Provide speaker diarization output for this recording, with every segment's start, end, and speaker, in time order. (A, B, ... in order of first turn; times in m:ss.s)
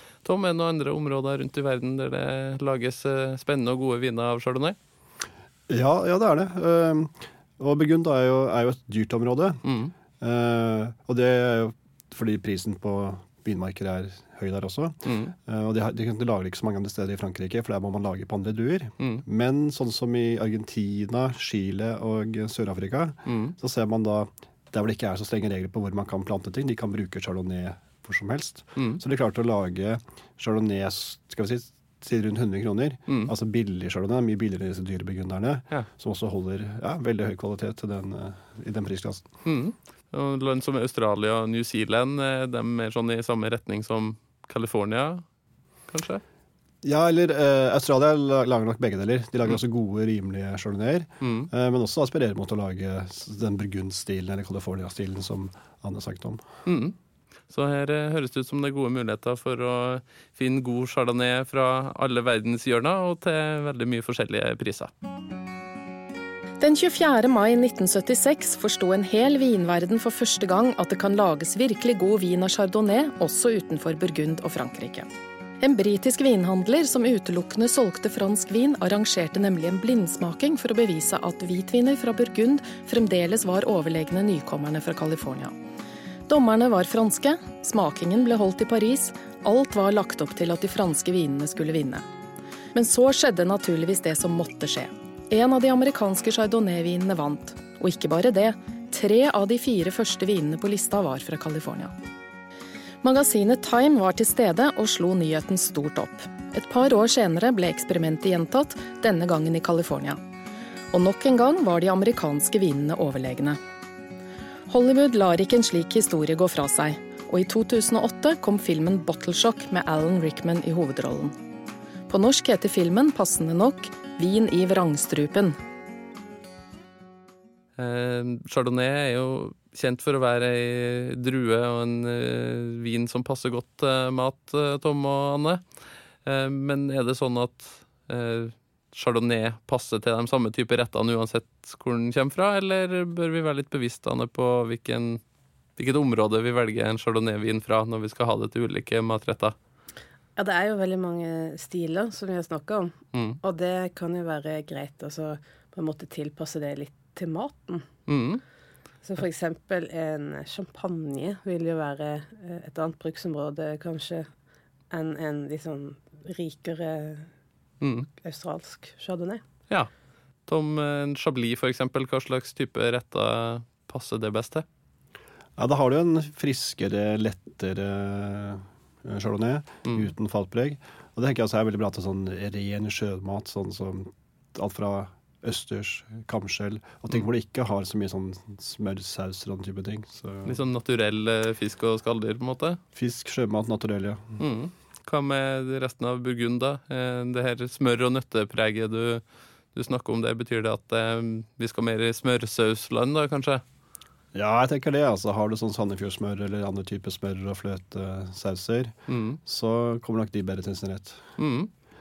0:00.2-0:04.8 A
0:05.7-0:09.6 B
0:09.6-0:09.9 A
0:10.2-0:39.3 B
0:15.0-0:15.3 A
0:23.2-0:23.5 A
0:39.4-0:45.2 A
0:45.9-0:46.2 A
0:46.8-0:56.4 B
0:51.2-0:51.5 A
0:56.6-0:57.0 A
0:57.5-1:04.9 A
1:06.6-1:15.0 C
1:15.6-1:25.5 C
1:26.3-1:32.0 C
1:32.7-1:41.9 C
1:43.0-1:50.2 C
1:50.9-1:53.6 C
1:54.7-2:01.3 C
2:02.1-2:05.5 C
2:07.8-2:15.6 A
2:16.2-2:25.2 A
2:25.8-2:29.5 A
2:30.4-2:37.9 D
2:38.1-2:38.4 A
2:39.0-2:44.3 D
2:44.9-2:47.3 D
2:47.8-2:48.1 A
2:48.2-2:49.4 D
2:50.5-2:54.6 A
2:55.6-3:10.6 B
3:10.4-3:12.8 A
3:12.9-3:14.4 B
3:14.4-3:23.6 A
3:24.3-3:28.9 B
3:29.1-3:29.4 A
3:29.4-3:31.2 B
3:31.4-3:31.7 A